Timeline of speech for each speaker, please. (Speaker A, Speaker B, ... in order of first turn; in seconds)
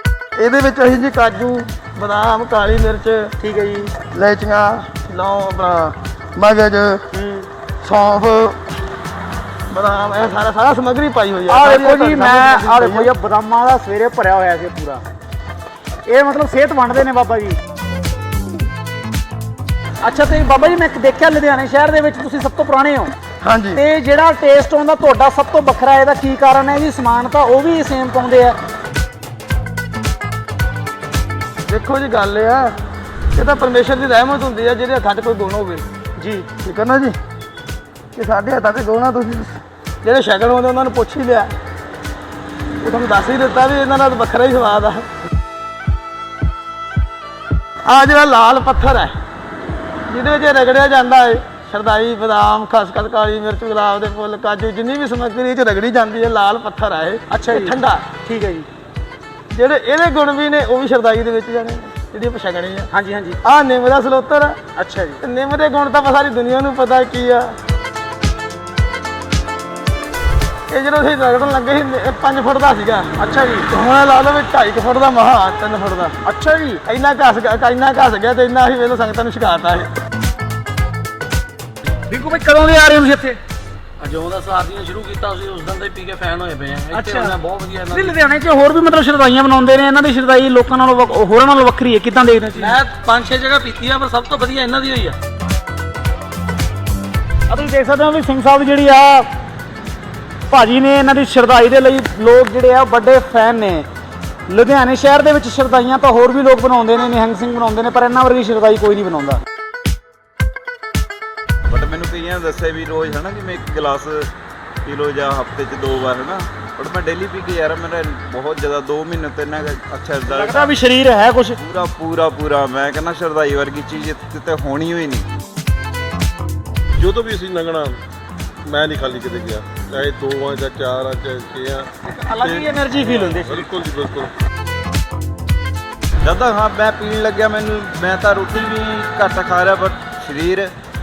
Speaker A: 0.4-3.3, 4.1-7.0, 7.8-8.7, 9.7-13.1, 23.4-23.8, 31.7-32.8, 33.3-35.8, 36.6-37.1, 38.1-41.5, 42.8-45.1, 47.8-49.1, 50.1-58.1, 59.5-62.9, 63.4-64.6, 65.2-67.6, 70.7-73.1, 73.7-76.2, 76.8-79.9
Speaker B: 3.4-3.9, 7.1-7.5, 11.5-15.0, 16.1-17.6, 20.0-23.1, 23.7-28.6, 36.2-36.5, 57.3-58.7, 62.9-63.4, 64.7-65.2, 73.2-73.7, 76.2-76.8, 82.1-83.4, 86.9-87.4, 87.9-92.8, 97.5-99.3, 100.5-103.8, 104.5-109.4, 120.3-121.6, 132.0-133.7
Speaker C: 84.0-88.1, 92.6-95.2
Speaker D: 111.7-114.3, 114.8-120.8, 121.5-125.3, 136.2-140.7
Speaker E: 127.0-128.0, 128.7-131.9, 132.4-134.3